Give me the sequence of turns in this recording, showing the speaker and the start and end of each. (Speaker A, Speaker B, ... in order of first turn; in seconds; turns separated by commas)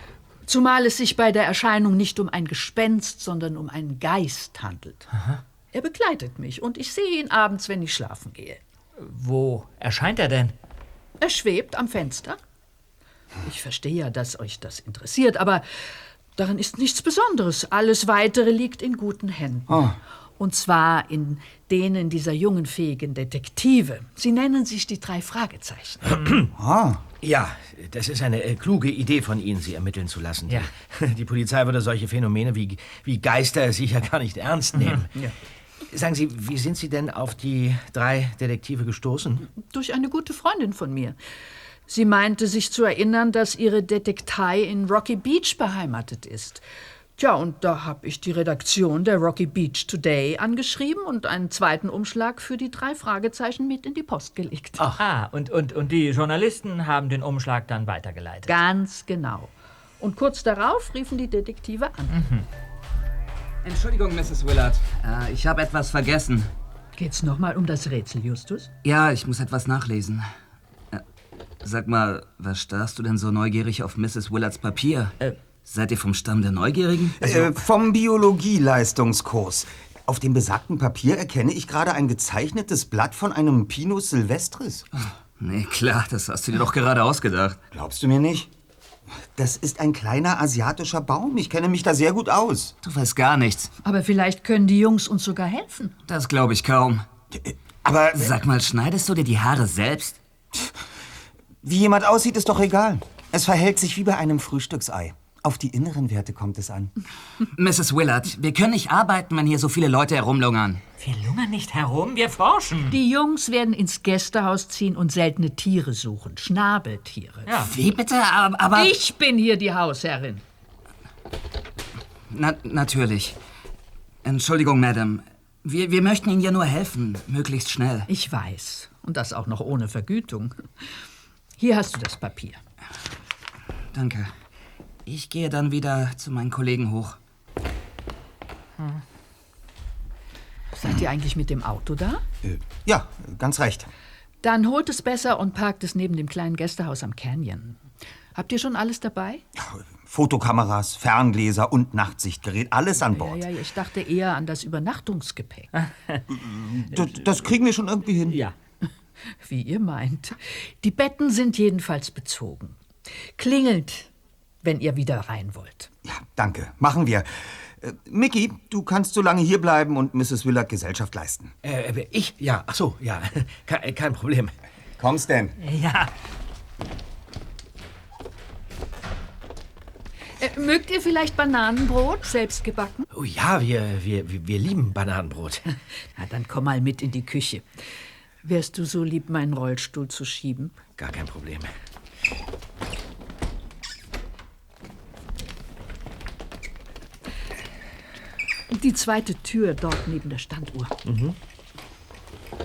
Speaker A: 0.5-5.1, Speaker A: 5.7-8.6, Speaker B: 9.0-10.5, Speaker A: 11.2-12.4, Speaker A: 13.4-19.9, Speaker C: 19.7-20.0, Speaker A: 20.4-26.1, Speaker D: 26.1-26.5, Speaker C: 26.6-27.0, Speaker D: 27.2-35.1, Speaker D: 35.9-39.5, Speaker A: 39.5-41.2, Speaker A: 41.9-46.6, Speaker A: 47.2-54.8, Speaker B: 54.9-58.5, Speaker A: 58.5-62.2, Speaker B: 62.1-62.5, Speaker E: 63.6-66.5, Speaker A: 67.0-68.7, Speaker E: 68.8-70.3, Speaker E: 71.6-77.3, Speaker C: 77.2-84.9, Speaker E: 85.4-87.6, Speaker C: 87.7-88.5, Speaker C: 89.3-92.8, Speaker E: 92.8-93.7, Speaker A: 93.8-96.0, Speaker E: 96.1-97.0, Speaker C: 97.3-98.3, Speaker E: 98.2-100.2, Speaker C: 101.6-106.9, Speaker E: 107.6-110.8, Speaker B: 111.0-113.0, Speaker A: 112.9-117.6, Speaker B: 117.5-117.7, Speaker E: 117.7-118.9, Speaker A: 118.7-120.4, Speaker E: 122.3-123.4, Speaker E: 124.2-128.1, Speaker A: 128.1-130.8, Speaker A: 131.6-132.6, Speaker E: 133.9-134.3, Speaker E: 135.1-137.2, Speaker A: 140.7-142.2, Speaker C: 142.4-143.9, Speaker A: 144.4-149.4, Speaker C: 149.6-153.5, Speaker A: 153.1-155.7, Speaker B: 155.8-156.2, Speaker C: 156.3-158.4, Speaker B: 158.3-158.6, Speaker A: 159.4-164.1, Speaker A: 164.6-165.9, Speaker C: 166.1-171.5, Speaker D: 171.6-174.5, Speaker C: 175.0-175.6, Speaker B: 175.6-176.1, Speaker A: 180.4-183.1, Speaker D: 183.1-185.7, Speaker A: 186.2-187.7, Speaker A: 188.4-190.7, Speaker D: 191.0-191.7, Speaker A: 198.7-200.9, Speaker D: 201.1-201.4